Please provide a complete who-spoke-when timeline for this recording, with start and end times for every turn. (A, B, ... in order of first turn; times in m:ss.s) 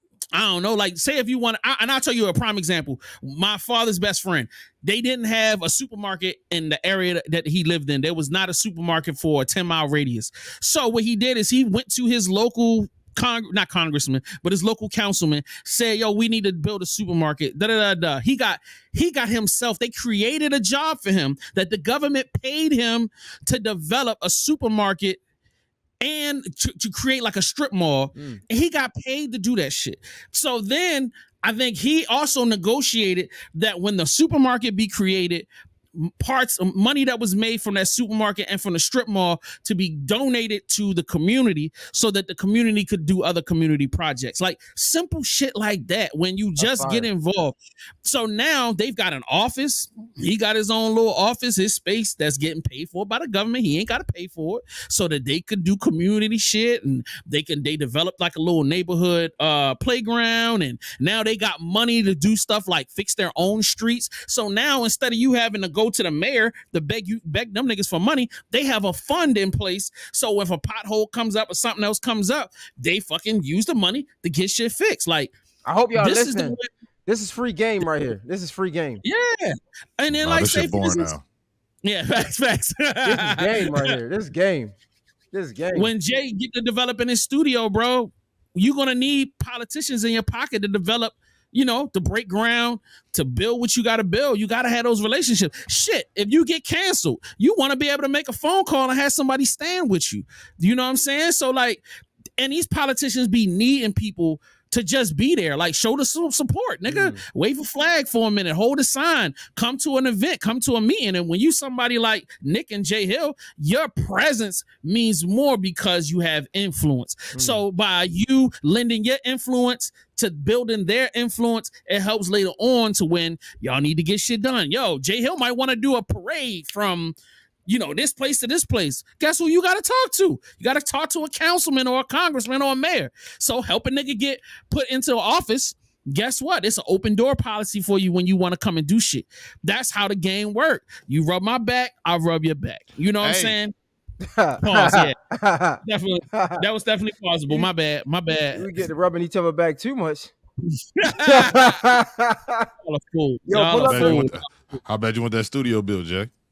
0:00.3-0:25.2 A
0:26.0-1:15.3 A
0:28.2-0:28.4 B
0:46.6-0:47.1 B
1:15.6-1:19.0 B
1:16.0-1:16.7 A
1:19.0-1:21.1 A
1:20.2-1:21.2 C
1:21.8-1:23.9 A
1:23.0-1:24.8 B
1:25.3-1:25.9 B
1:25.7-1:41.8 A
1:42.4-2:07.2 A
1:46.9-1:47.2 B
1:57.3-1:57.6 B
2:07.7-2:23.7 A
2:23.2-2:23.6 C
2:24.2-2:25.8 B
2:24.6-2:25.2 A
2:25.8-2:28.7 A
2:26.3-2:26.6 B
2:28.5-2:30.3 B
2:31.0-2:31.8 A
2:31.2-2:32.7 B
2:32.8-2:34.4 A
2:33.5-2:34.3 B
2:33.8-2:36.3 C